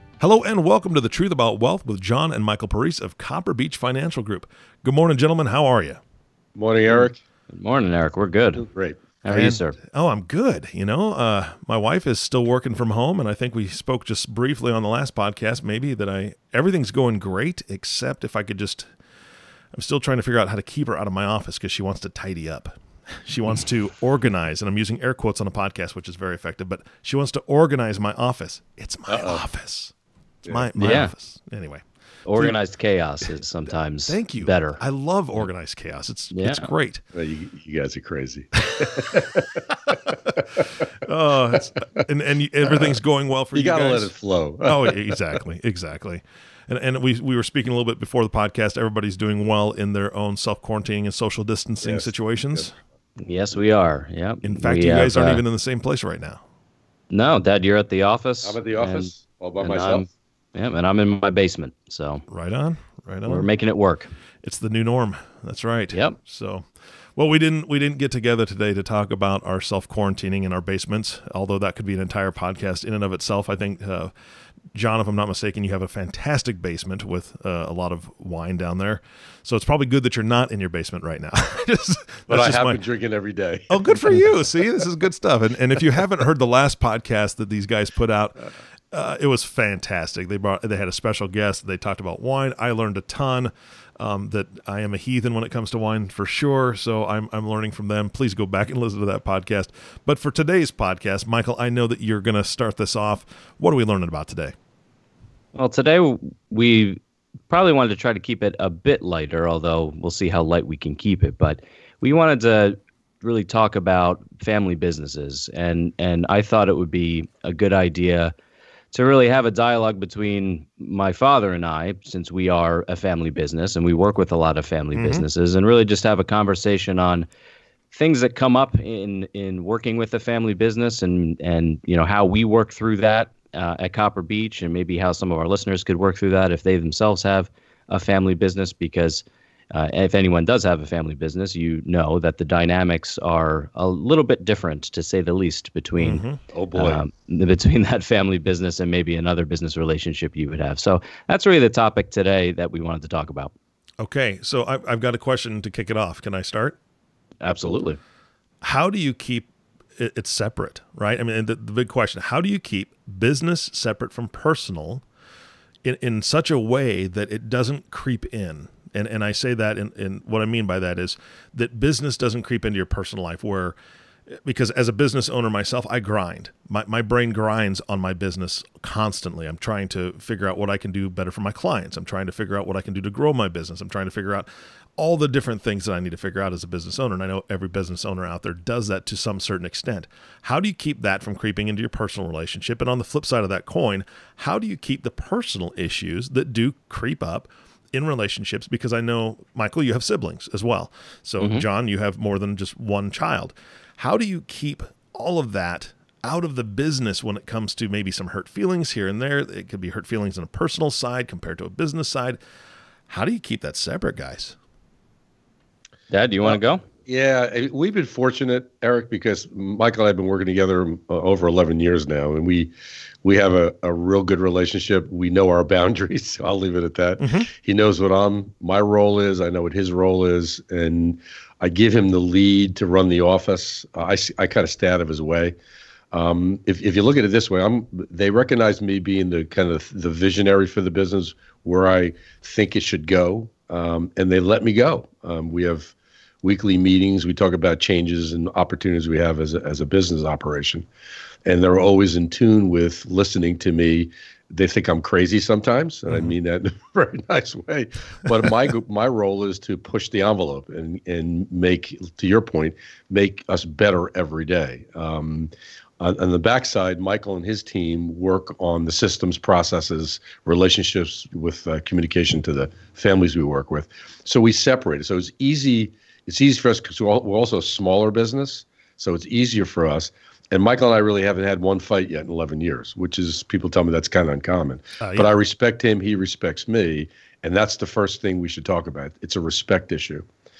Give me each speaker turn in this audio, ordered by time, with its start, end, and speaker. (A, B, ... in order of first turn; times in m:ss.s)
0:00.2-0:06.0 A
0:06.6-0:07.2 B
0:06.9-0:08.7 C
0:08.6-0:09.0 B
0:09.2-0:09.8 C
0:09.3-0:18.9 A
0:19.7-0:29.9 A
0:29.1-0:29.4 B
0:30.5-0:31.8 A
0:30.8-0:31.1 C
0:32.3-0:34.8 C
0:34.1-0:37.0 A
0:36.3-0:36.7 C
0:37.1-0:40.6 B
0:38.7-0:39.2 A
0:41.0-0:44.1 A
0:42.7-0:43.0 B
0:43.5-0:45.2 B
0:44.6-0:52.7 A
0:51.8-0:52.7 B
0:53.2-0:55.4 C
0:54.4-0:56.4 A
0:57.1-1:02.2 C
0:58.4-1:00.1 B
1:02.3-1:03.5 A
1:03.3-1:04.1 C
1:04.4-1:14.1 A
1:14.7-1:22.8 A
1:22.3-1:24.3 B
1:23.7-1:44.6 A
1:45.6-1:58.3 C
1:58.9-2:07.3 C
2:05.0-2:05.2 A
2:07.9-2:26.2 C
2:26.0-2:26.4 A
2:26.5-2:27.0 B
2:26.8-2:33.5 C
2:34.0-2:36.8 A
2:37.4-2:38.0 C
2:38.6-2:45.0 A
2:45.8-2:53.8 A
2:54.3-3:32.4 A
3:21.4-3:21.6 C
3:33.1-3:34.6 A
3:36.1-3:36.8 C
3:37.1-3:42.7 B
3:43.2-3:55.6 B
3:47.2-3:47.5 A
3:56.1-4:10.9 B
4:11.5-4:50.2 B
4:45.0-4:45.3 A